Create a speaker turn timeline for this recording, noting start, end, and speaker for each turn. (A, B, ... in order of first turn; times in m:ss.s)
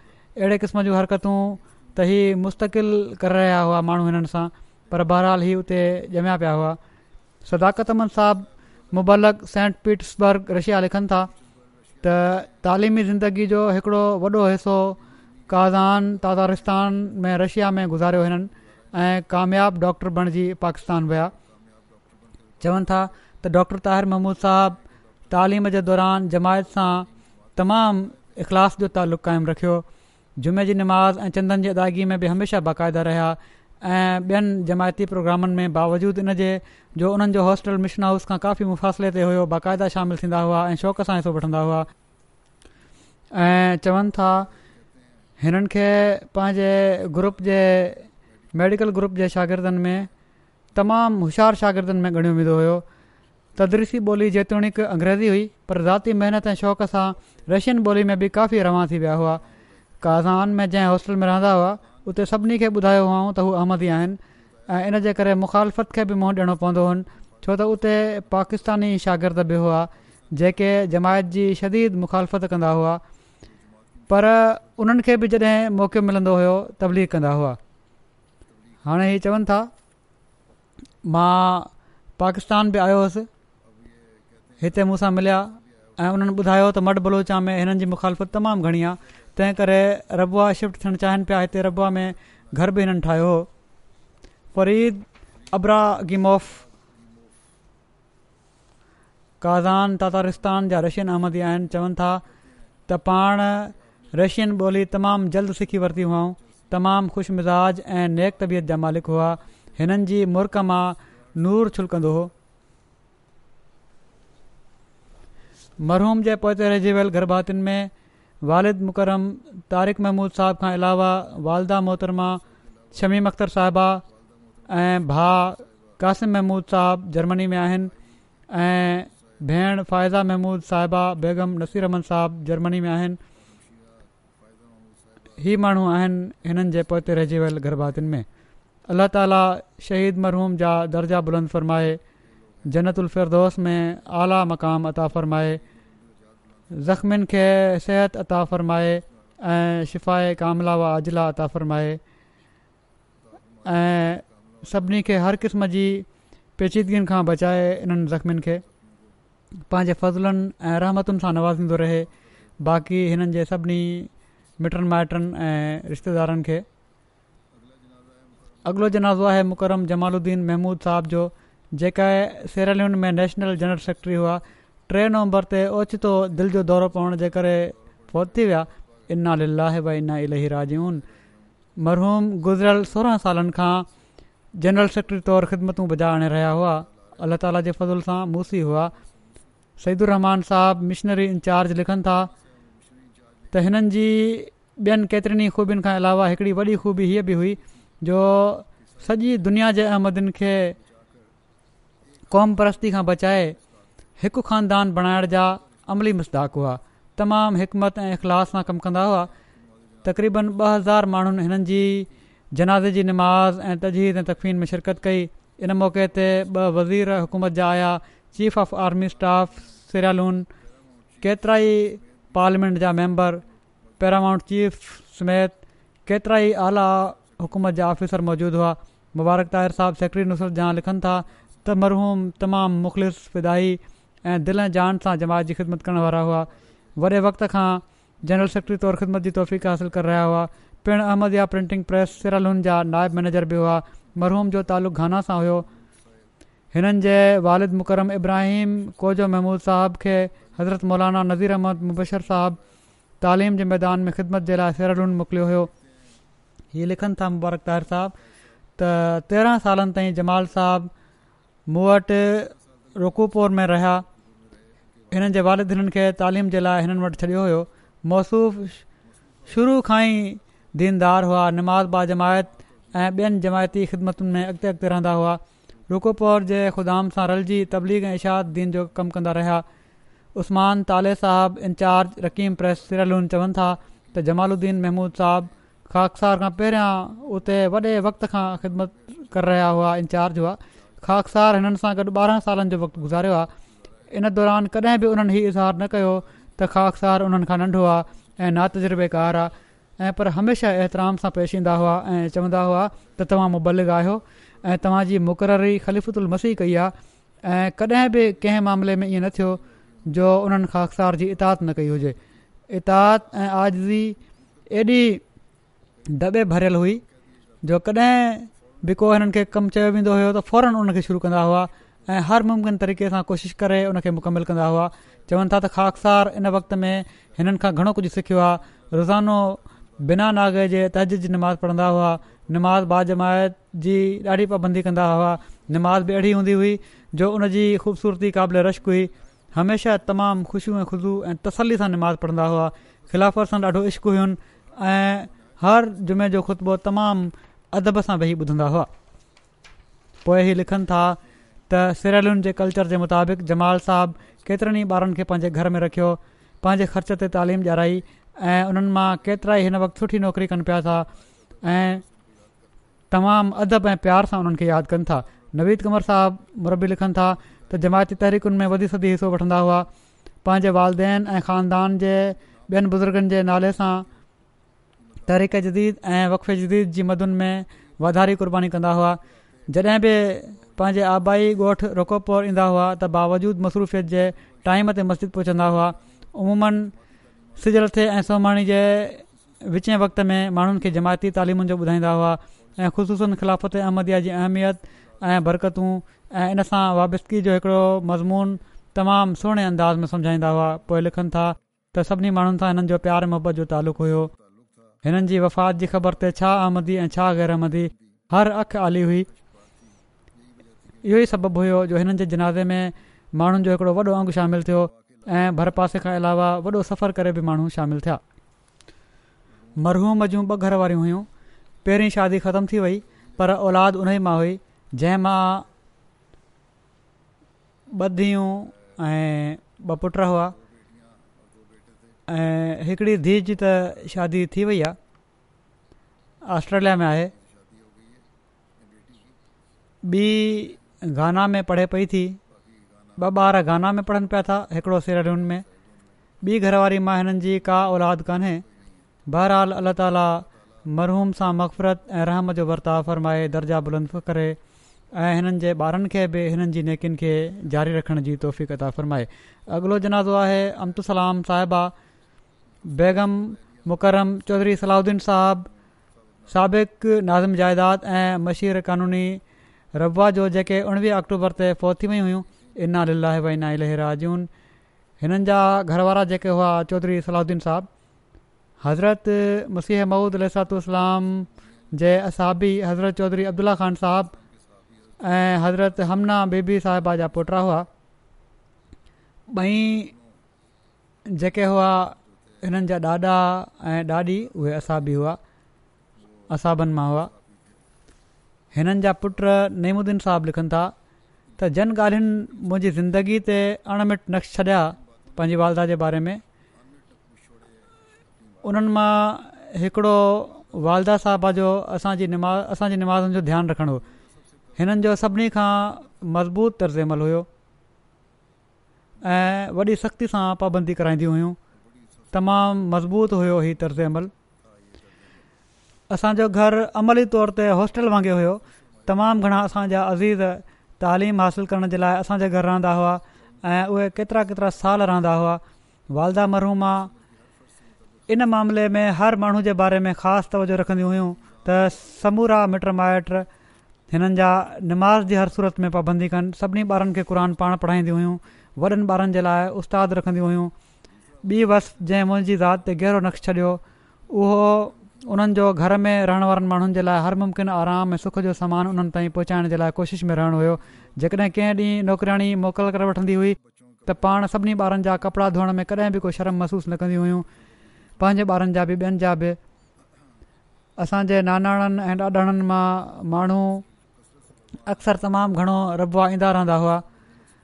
0:00.4-0:06.8 A
0:07.4-0:11.3 A
0:12.0-0:21.3 A
0:22.6-0:29.8 A
0:30.4-0:41.9 A
0:43.3-0:44.5 A
0:45.4-0:50.1 A
0:50.7-0:52.8 A
0:53.6-0:59.4 A
1:00.0-1:13.0 A
1:14.1-1:17.6 A
1:18.8-1:19.7 A
1:21.0-1:23.3 A
1:24.6-1:33.5 A
1:34.5-1:36.6 A
1:39.4-1:42.2 A
1:42.9-1:52.3 A
1:55.8-1:57.9 A
1:58.4-2:04.0 A
2:04.7-2:07.9 A
2:08.5-2:13.2 A
2:15.4-2:18.2 A
2:18.9-2:22.0 A
2:22.6-2:25.6 A
2:26.7-2:32.0 A
2:33.6-2:36.1 A
2:36.6-2:38.6 A
2:39.7-2:42.1 A
2:42.6-2:46.6 A
2:48.6-3:01.0 A
3:01.8-3:03.9 A
3:04.6-3:08.9 A
3:09.8-3:12.3 A
3:13.5-3:20.8 A
3:22.3-3:23.6 A
3:24.2-3:29.3 A
3:30.0-3:40.5 A
3:41.2-3:43.4 A
3:44.0-4:05.7 A
4:06.7-4:12.6 A
4:13.2-4:15.7 A
4:16.7-4:18.1 A
4:18.8-4:20.9 A
4:21.7-4:24.0 A
4:25.1-4:28.8 A
4:29.4-4:39.6 A
4:40.3-4:53.5 A
4:54.1-5:06.9 A
5:07.4-5:12.2 A
5:12.7-5:14.2 A
5:14.7-5:15.2 A
5:16.1-5:17.0 A
5:17.6-5:48.9 A
5:50.2-6:01.1 A
6:01.6-6:02.0 A
6:03.1-6:09.9 A
6:10.4-6:14.1 A
6:15.2-6:26.9 A
6:27.5-6:44.3 A
6:45.0-6:49.3 A
6:51.0-6:58.2 A
6:59.8-7:01.3 A
7:01.8-7:05.6 A
7:07.9-7:10.6 A
7:12.3-7:15.0 A
7:16.4-7:17.3 A
7:20.0-7:22.4 A
7:23.2-7:25.6 A
7:26.4-7:28.6 A
7:29.3-7:34.6 A
7:35.1-7:41.9 A
7:42.8-7:45.7 A
7:46.5-7:49.4 A
7:49.9-7:54.5 A
7:55.2-7:57.9 A
7:58.8-8:04.4 A
8:05.2-8:07.9 A
8:09.5-8:10.1 A
8:11.3-8:15.4 A
8:16.5-8:17.3 A
8:18.7-8:20.9 A
8:21.6-8:26.4 A
8:28.6-8:34.0 A
8:34.8-8:37.5 A
8:39.2-8:41.6 A
8:42.3-8:44.3 A
8:46.1-8:57.1 A
8:58.3-9:03.5 A
9:04.1-9:10.7 A
9:11.4-9:27.5 A
9:28.2-9:29.6 A
9:31.0-9:33.8 A
9:34.8-9:37.0 A